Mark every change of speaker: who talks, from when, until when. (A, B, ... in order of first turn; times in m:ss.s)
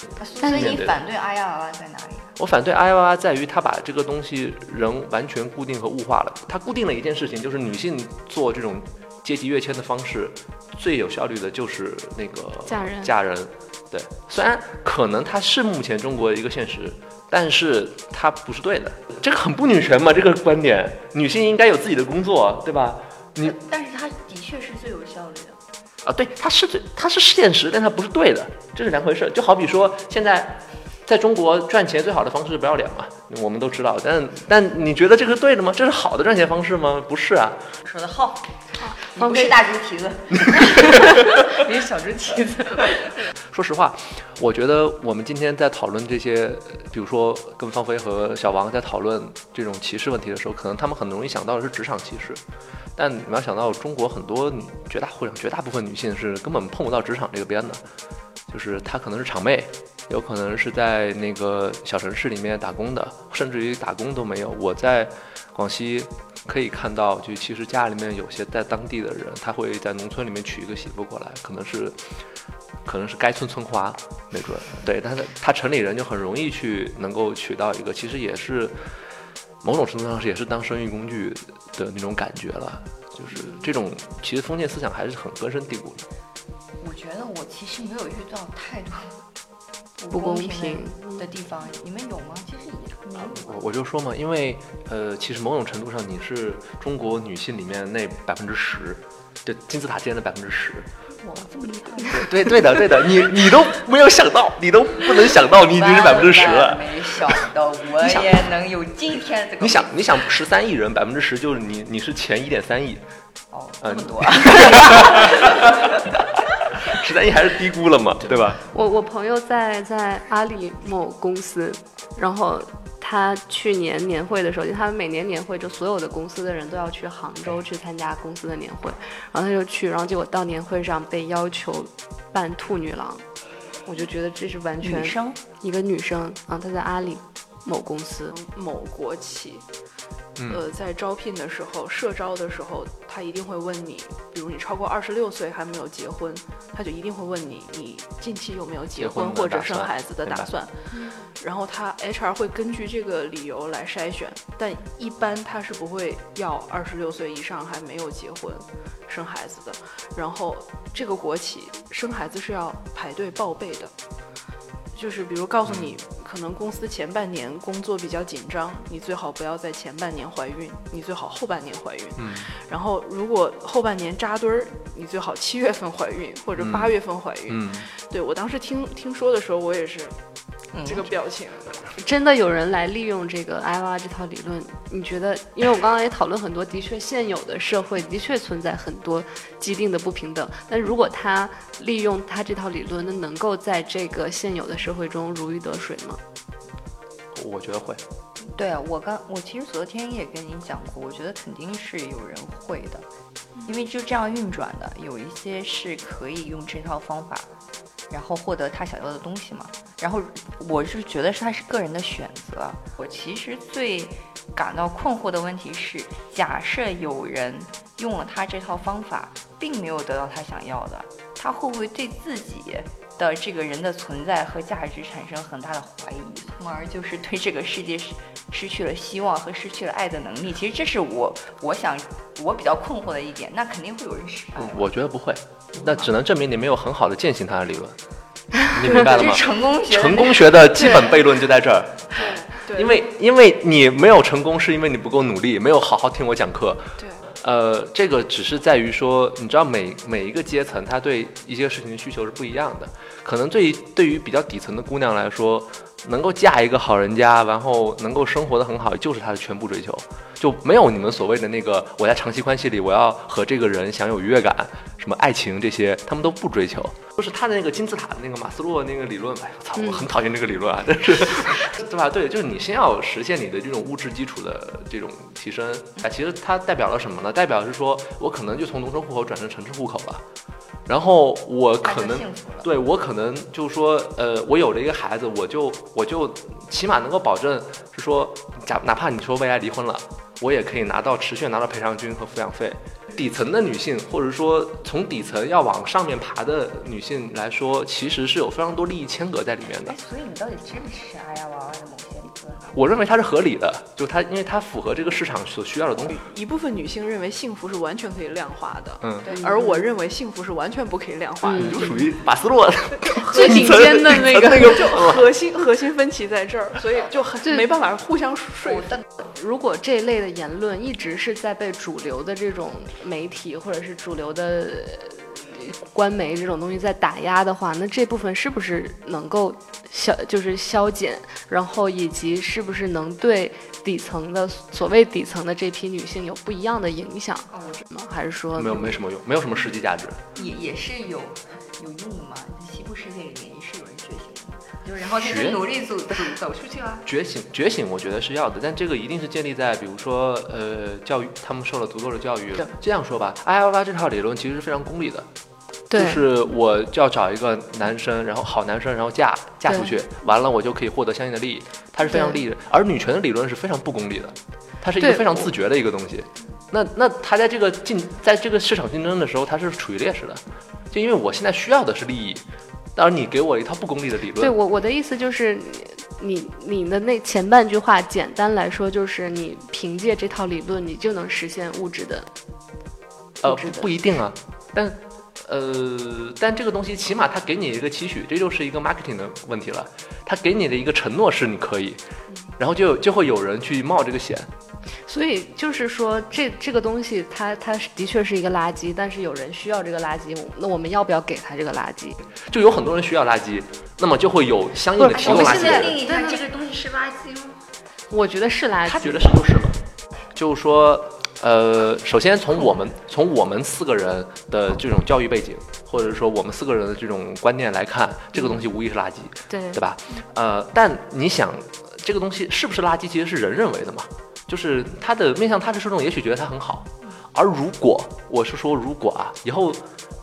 0:00.2-0:02.3 A
0:00.4-0:00.8 B
0:00.4-0:01.0 C
0:02.4-0:23.6 C
0:12.7-0:13.1 B
0:23.4-0:25.6 A
0:26.0-0:37.6 C
0:37.8-0:43.2 A
0:38.9-0:39.5 B
0:43.5-0:52.4 C
0:53.0-0:57.8 C
0:58.5-1:12.0 C
1:12.8-1:18.8 C
1:19.6-1:26.0 C
1:26.8-1:29.2 A
1:30.0-1:33.6 A
1:30.1-1:31.2 B
1:33.1-1:40.9 C
1:41.2-1:42.4 A
1:42.0-1:47.4 C
1:45.6-1:49.9 A
1:48.0-1:48.5 C
1:49.6-1:53.0 C
1:53.5-1:56.2 A
1:53.8-1:56.1 C
1:56.8-1:58.6 C
1:58.7-2:13.2 B
2:13.8-2:18.3 B
2:14.8-2:15.4 A
2:18.3-2:19.6 D
2:20.4-2:20.6 C
2:20.5-2:43.9 D
2:28.9-2:30.5 C
2:44.9-3:00.1 D
2:45.7-2:45.9 C
2:52.2-2:52.5 C
2:56.6-2:57.0 C
2:57.5-2:57.9 C
3:00.7-3:01.1 A
3:00.8-3:01.8 D
3:02.0-3:16.2 B
3:17.3-3:18.0 C
3:18.5-3:23.0 A
3:23.6-3:27.5 A
3:28.1-3:54.9 A
3:54.6-3:58.0 C
3:55.8-3:56.1 A
3:58.7-4:40.2 C
3:58.8-4:01.2 A
4:02.2-4:03.0 D
4:07.0-4:07.2 D
4:29.8-4:30.1 B
4:40.9-5:00.0 C
4:41.8-4:42.7 A
4:59.8-5:02.8 A
5:02.7-5:06.2 C
5:06.1-5:12.1 D
5:09.0-5:09.3 C
5:09.3-5:09.6 A
5:11.5-5:11.8 B
5:11.5-5:15.3 C
5:13.0-5:19.0 D
5:13.3-5:14.7 B
5:19.2-5:39.0 B
5:37.5-5:37.8 A
5:38.5-5:40.2 C
5:40.4-5:47.0 A
5:45.2-5:45.7 C
5:47.0-5:55.3 C
5:55.9-5:56.2 B
5:55.9-6:14.5 C
6:02.1-6:02.4 B
6:05.0-6:05.4 B
6:14.4-6:22.3 B
6:23.4-6:32.0 C
6:23.4-6:23.9 B
6:32.6-6:34.5 C
6:35.1-6:42.2 B
6:42.4-6:46.0 C
6:45.0-6:46.4 B
6:45.1-6:47.6 A
6:48.1-6:49.3 B
6:48.8-6:49.8 C
6:50.3-7:09.8 C
6:59.5-6:59.8 B